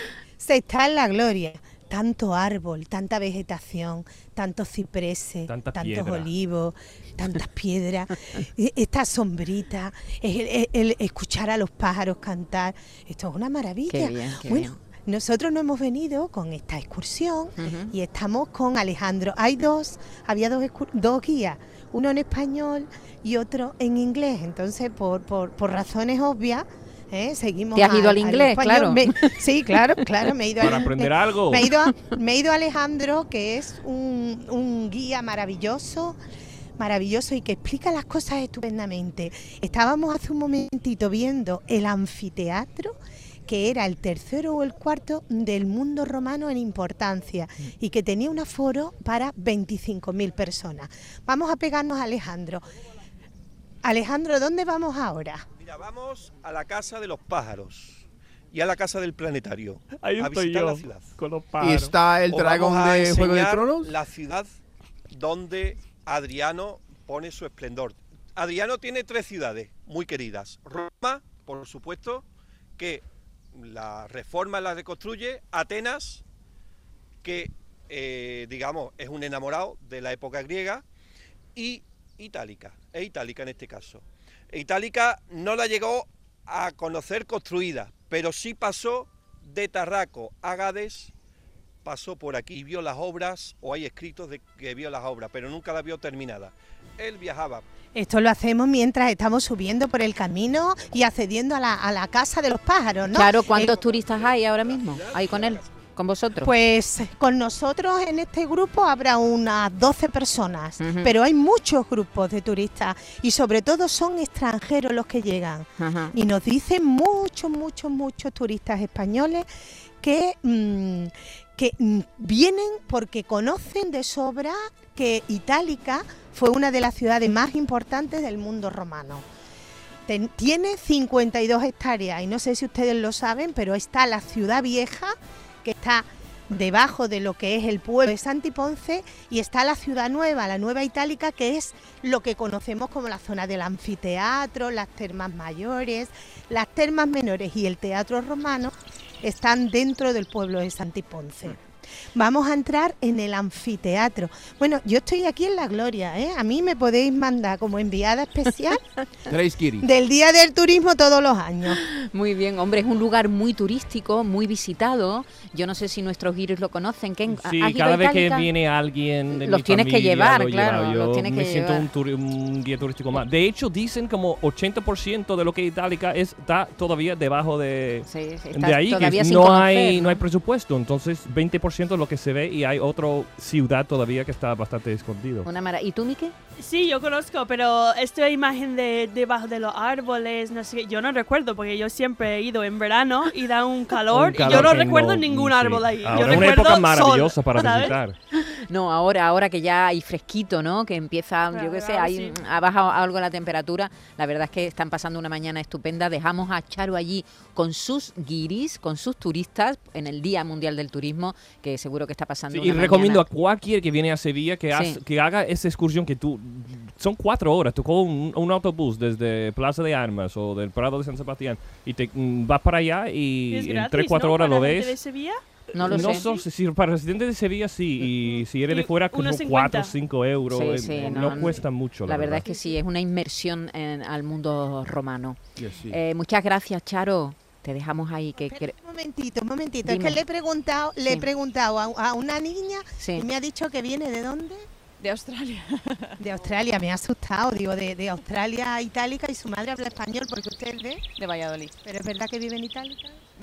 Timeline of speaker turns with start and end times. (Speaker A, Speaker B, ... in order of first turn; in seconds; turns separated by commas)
Speaker A: 0.4-36.2, Speaker B: 5.5-6.3, Speaker C: 13.9-14.8, Speaker C: 17.6-17.9, Speaker C: 27.7-29.8, Speaker B: 30.6-31.7, Speaker A: 36.8-52.6, Speaker A: 53.8-55.4, Speaker D: 55.6-61.1, Speaker B: 60.0-61.9, Speaker E: 61.6-63.9, Speaker D: 62.3-64.6, Speaker D: 65.1-72.2, Speaker D: 72.8-76.2, Speaker D: 77.2-80.8, Speaker D: 81.5-91.1, Speaker D: 91.8-97.6, Speaker A: 97.9-103.7, Speaker C: 103.1-106.5, Speaker D: 103.5-105.8, Speaker A: 106.4-119.5, Speaker C: 110.8-111.1, Speaker C: 115.8-116.1, Speaker A: 120.0-129.2, Speaker A: 130.1-151.6, Speaker A: 152.1-158.8, Speaker E: 159.3-159.8, Speaker A: 159.8-161.8, Speaker C: 161.7-168.5, Speaker B: 167.3-185.5, Speaker C: 169.3-171.9, Speaker C: 178.1-180.2, Speaker C: 185.4-186.3, Speaker F: 186.6-198.0, Speaker B: 194.1-198.2, Speaker C: 198.3-213.2, Speaker F: 201.5-202.4, Speaker B: 212.5-225.0, Speaker C: 214.7-215.0, Speaker F: 223.5-226.4, Speaker B: 225.7-232.5, Speaker C: 225.7-226.3, Speaker F: 228.7-229.9, Speaker C: 230.5-238.7, Speaker F: 231.0-231.3, Speaker E: 235.6-236.0, Speaker A: 238.4-244.7, Speaker C: 239.8-240.2, Speaker C: 243.0-243.2, Speaker A: 246.2-251.1, Speaker A: 251.8-253.2